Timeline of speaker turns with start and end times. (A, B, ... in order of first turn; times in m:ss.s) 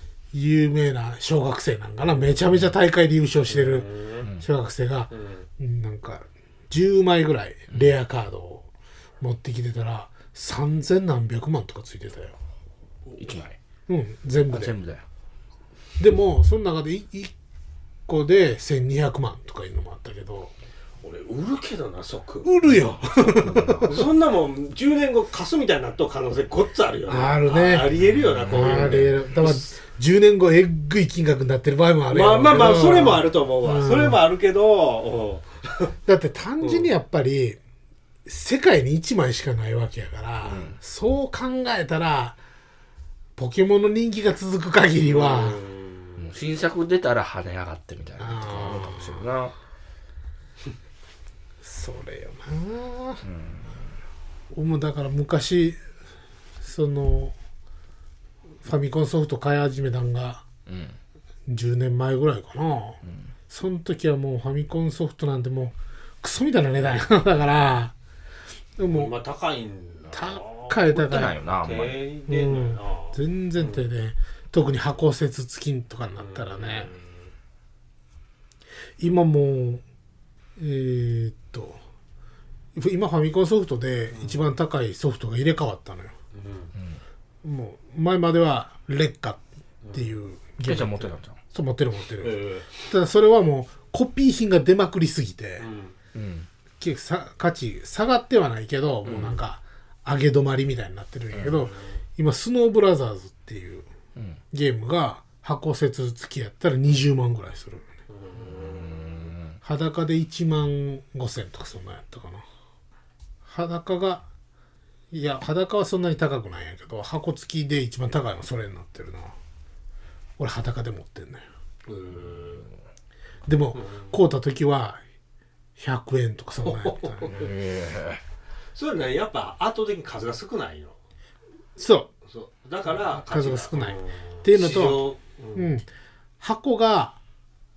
0:00.3-0:08.7 A
0:03.5-0:04.3 B
0:05.1-0:05.5 B
0:09.2-0:12.4 A
0:13.1-0:13.5 B
0:13.2-0:13.5 C
0:13.9-0:14.8 A
0:14.5-0:15.0 C
0:16.0-0:17.3 A
0:18.1-0:20.5 A
0:21.0-0:22.7 B
0:22.4-0:24.1 A
0:23.3-0:23.9 C
0:23.8-0:29.8 B
0:27.1-0:27.9 A
0:28.1-0:29.1 C
0:28.5-0:34.2 A
0:32.1-0:35.9 B
0:36.1-0:37.6 A
0:36.6-0:36.9 B
0:38.2-0:42.4 A
0:40.4-0:40.8 C
0:43.4-0:45.6 A
0:45.0-0:46.3 B
0:46.2-0:49.5 C
0:48.2-0:49.2 A
0:51.6-0:53.2 A
0:53.2-0:53.8 C
0:54.5-0:55.8 A
0:56.6-0:57.3 A
0:58.6-1:00.4 A
1:00.7-1:01.0 C
1:01.5-1:07.9 A
1:03.0-1:03.3 C
1:08.8-1:09.1 A
1:08.9-1:13.8 B
1:10.1-1:11.4 A
1:11.0-1:12.0 C
1:12.3-1:16.9 A
1:16.2-1:17.3 B
1:19.0-1:19.8 A
1:20.6-1:21.8 A
1:22.8-1:26.2 A
1:24.1-1:24.5 B
1:26.3-1:26.7 B
1:27.4-1:35.6 A
1:29.8-1:30.1 B
1:30.6-1:31.4 C
1:32.2-1:32.7 B
1:35.6-1:36.0 B
1:36.1-1:36.5 C
1:36.8-1:43.9 A
1:39.0-1:39.4 C
1:39.1-1:39.4 B
1:41.3-1:41.6 C
1:41.7-1:42.0 B
1:44.5-1:47.9 A
1:48.1-1:49.3 B
1:48.4-1:49.6 C
1:49.6-1:52.4 A
1:53.4-1:54.3 A
1:55.1-1:59.3 A
2:00.4-2:01.5 A
2:01.9-2:02.7 B
2:03.4-2:05.0 A
2:03.8-2:04.1 B
2:05.8-2:07.3 A
2:06.6-2:07.5 B
2:07.3-2:08.2 C
2:08.7-2:11.0 B
2:11.8-2:12.1 A
2:12.2-2:15.8 B
2:13.2-2:15.8 A
2:16.4-2:17.2 A